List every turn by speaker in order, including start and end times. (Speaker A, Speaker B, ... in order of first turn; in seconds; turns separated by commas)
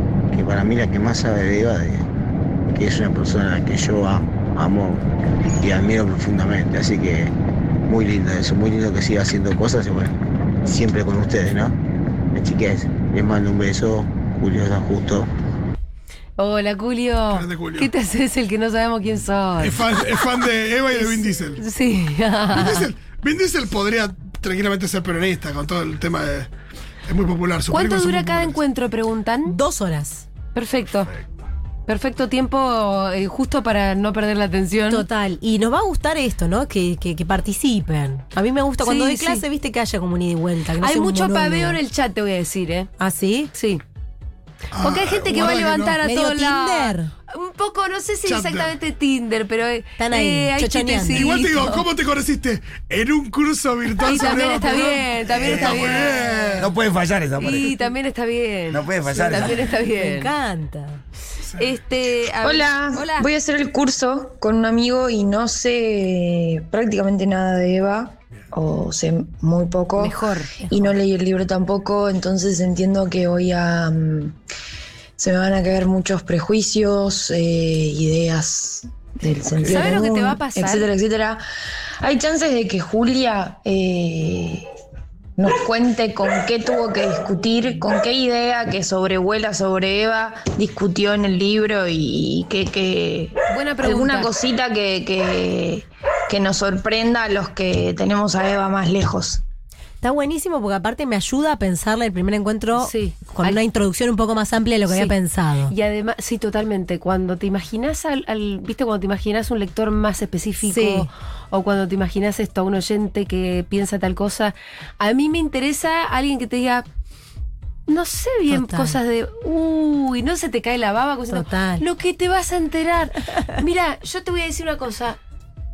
Speaker A: 0.3-2.1, Speaker A: 2.7-7.3, Speaker A: 7.9-11.8, Speaker A: 12.3-15.3, Speaker B: 16.4-19.9, Speaker C: 17.3-17.9, Speaker C: 19.6-21.6, Speaker B: 20.9-22.9, Speaker C: 22.5-26.5, Speaker C: 27.1-28.6, Speaker B: 27.7-29.6, Speaker D: 29.4-30.3, Speaker B: 30.5-31.1, Speaker B: 31.9-35.0, Speaker D: 34.9-41.8, Speaker B: 38.8-39.4, Speaker B: 40.8-42.9, Speaker D: 43.0-43.5, Speaker B: 43.5-43.8, Speaker C: 44.7-46.0, Speaker B: 44.8-51.8, Speaker D: 46.0-47.1, Speaker C: 48.2-48.7, Speaker D: 50.0-51.4, Speaker C: 51.1-56.7, Speaker B: 54.0-56.5, Speaker E: 56.6-57.8, Speaker B: 57.4-60.3, Speaker E: 58.7-59.7, Speaker D: 59.1-61.0, Speaker C: 61.5-61.7, Speaker B: 61.6-63.3, Speaker F: 62.4-74.4, Speaker B: 70.0-70.6, Speaker D: 70.7-70.9, Speaker F: 75.2-81.4, Speaker B: 79.7-80.9, Speaker F: 82.0-84.7, Speaker F: 85.4-99.4, Speaker B: 93.5-94.3, Speaker D: 100.0-105.7, Speaker B: 102.7-103.6, Speaker B: 104.9-105.1, Speaker B: 105.7-116.8, Speaker D: 110.6-111.1, Speaker B: 117.9-125.2, Speaker D: 118.5-119.0, Speaker D: 121.3-121.8